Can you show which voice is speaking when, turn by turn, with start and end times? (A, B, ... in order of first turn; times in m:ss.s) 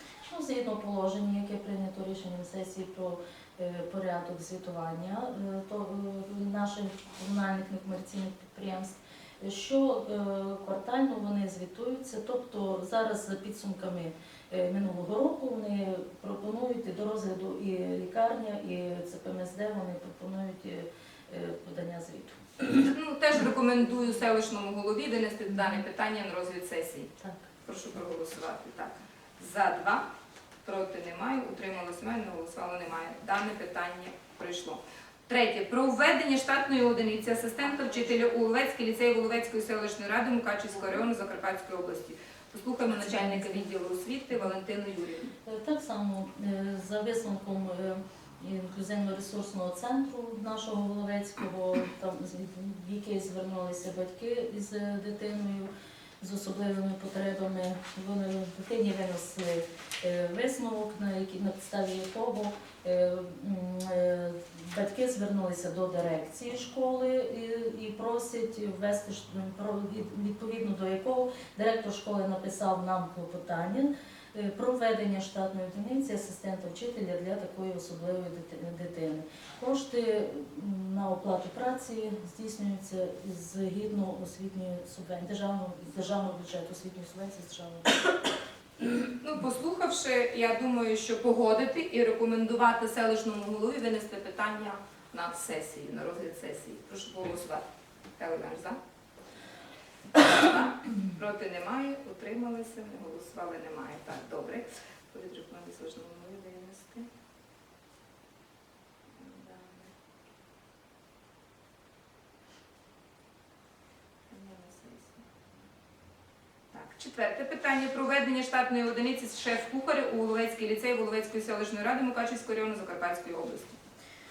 0:00.2-0:22.8 A
0:22.8-0:27.1 B
0:25.5-0:25.8 A
0:27.6-0:30.0 B
0:30.6-0:45.3 B
0:42.9-0:43.7 A
0:45.4-0:55.7 A
0:56.2-1:28.0 A
1:28.8-1:37.6 B
1:38.2-1:38.8 B
1:40.2-1:47.1 B
1:49.2-1:49.9 B
1:54.3-1:55.3 B
1:56.7-2:03.8 B